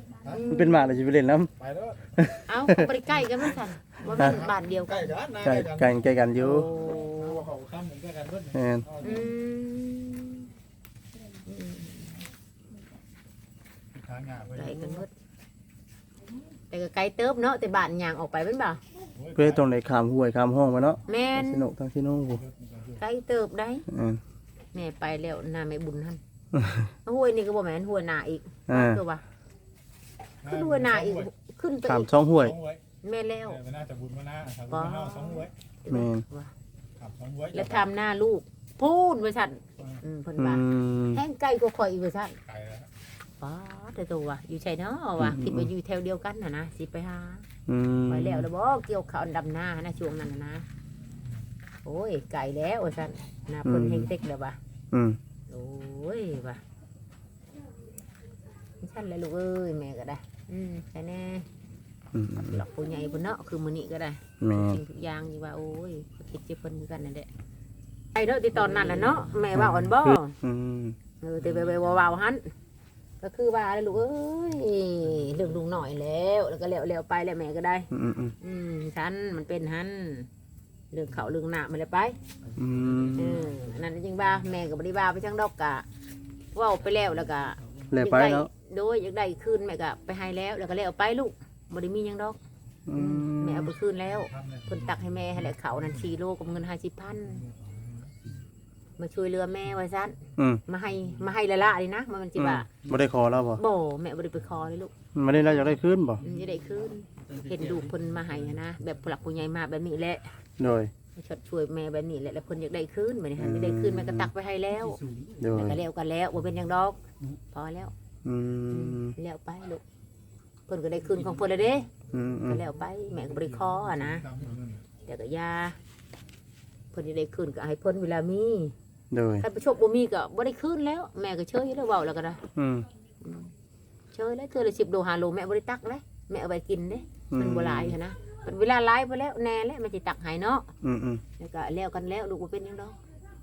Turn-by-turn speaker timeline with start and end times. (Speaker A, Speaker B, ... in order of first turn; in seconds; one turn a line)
Speaker A: 0.2-0.9
Speaker B: 0.5-1.5
Speaker C: 1.7-2.0
Speaker B: 2.0-2.9
Speaker A: 2.5-5.2
Speaker B: 4.2-4.5
Speaker C: 5.0-5.8
Speaker B: 5.4-6.7
Speaker A: 6.4-7.5
Speaker C: 7.4-8.4
Speaker B: 8.5-8.9
Speaker A: 9.0-10.5
Speaker A: 11.4-12.2
Speaker C: 13.9-14.5
Speaker A: 14.5-15.1
Speaker A: 16.7-18.8
Speaker B: 19.3-22.4
Speaker A: 21.1-21.7
Speaker A: 22.9-23.9
Speaker B: 23.9-24.2
Speaker A: 24.7-26.2
Speaker B: 26.5-26.9
Speaker A: 27.0-29.2
Speaker B: 28.7-29.0
Speaker A: 30.4-32.1
Speaker C: 30.5-31.2
Speaker B: 31.8-32.6
Speaker C: 32.5-32.8
Speaker A: 33.0-33.6
Speaker C: 33.6-35.5
Speaker A: 34.6-36.5
Speaker B: 35.9-36.2
Speaker C: 37.0-37.5
Speaker A: 37.5-42.4
Speaker B: 40.4-41.2
Speaker C: 42.5-42.9
Speaker A: 43.4-47.5
Speaker B: 45.2-45.7
Speaker B: 47.7-48.5
Speaker A: 48.1-50.6
Speaker A: 51.8-54.6
Speaker B: 53.6-54.1
Speaker B: 54.9-55.2
Speaker A: 55.5-56.6
Speaker A: 58.8-61.5
Speaker B: 62.1-62.6
Speaker A: 62.4-67.3
Speaker B: 64.4-64.8
Speaker A: 68.1-70.4
Speaker B: 68.8-71.0
Speaker A: 71.2-72.5
Speaker A: 73.2-77.9
Speaker B: 77.9-78.3
Speaker A: 78.4-80.3
Speaker A: 80.9-82.2
Speaker B: 82.5-83.5
Speaker A: 83.1-85.8
Speaker A: 86.5-92.4
Speaker B: 87.9-88.5
Speaker B: 92.9-93.7
Speaker A: 92.9-97.5
Speaker A: 99.0-102.7
Speaker B: 100.4-100.6
Speaker B: 102.4-103.6
Speaker A: 103.6-104.9
Speaker B: 105.1-106.3
Speaker A: 106.2-110.3
Speaker B: 110.6-110.9
Speaker A: 111.1-117.9
Speaker B: 113.4-114.3
Speaker B: 115.4-115.8
Speaker B: 118.2-119.2
Speaker A: 118.7-119.8
Speaker A: 120.7-121.9
Speaker B: 122.1-122.6
Speaker A: 122.4-124.3
Speaker C: 124.4-124.8
Speaker A: 125.0-125.8
Speaker A: 126.9-128.7
Speaker B: 129.1-129.5
Speaker A: 129.4-132.4
Speaker B: 132.5-132.9
Speaker A: 133.2-133.5
Speaker A: 134.1-140.7
Speaker B: 137.3-138.0
Speaker B: 140.8-141.2
Speaker A: 141.4-143.0